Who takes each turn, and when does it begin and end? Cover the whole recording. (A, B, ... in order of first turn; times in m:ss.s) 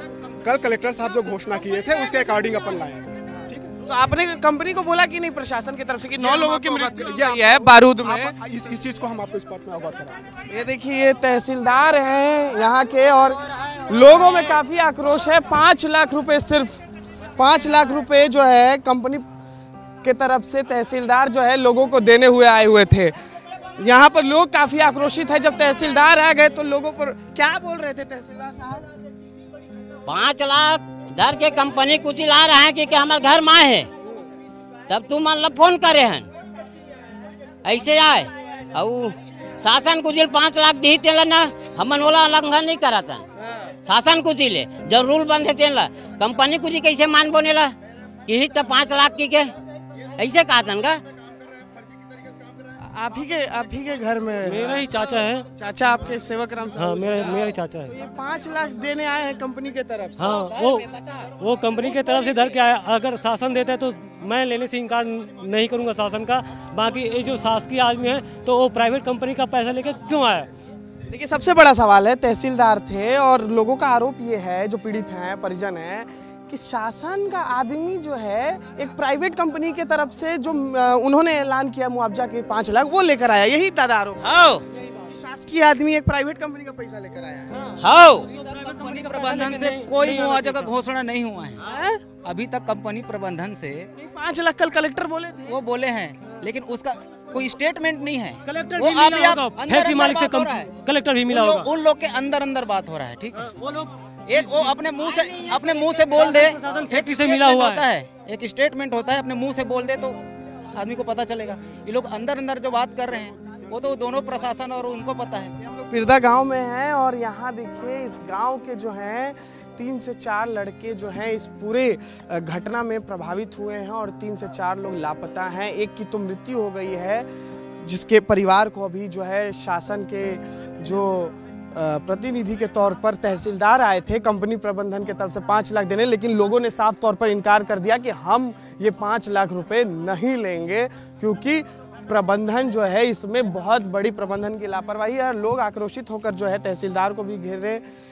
0:00.4-0:03.7 A
0:03.4-0:08.3 B
0:06.2-0:10.2 A
0:10.5-0:19.3 B
0:20.0-0:23.1 B
0:23.7-0:28.9 B
0:30.0-0:33.9 C
0:34.9-0:36.3 C
0:37.6-0:43.2 C
0:43.4-0:43.7 B
0:43.8-0:47.7 C
0:48.2-0:49.5 C
0:50.2-0:51.0 C
0:52.8-0:55.0 B
0:54.4-0:55.5 D
0:55.6-1:00.6 B
0:56.8-0:58.0 D
1:00.2-1:10.5 D
1:11.1-1:24.3 B
1:24.2-1:24.6 C
1:25.1-1:27.5 B
1:27.5-1:30.8 D
1:27.8-1:28.3 C
1:28.4-1:31.6 E
1:31.6-1:32.0 B
1:32.2-1:33.8 E
1:33.9-1:35.6 B
1:35.5-1:40.7 E
1:38.4-1:41.7 D
1:41.4-1:43.4 E
1:43.4-1:44.8 D
1:44.3-1:50.2 E
1:46.0-1:47.9 D
1:50.7-1:55.5 E
1:55.6-2:07.3 B
2:07.8-2:27.8 B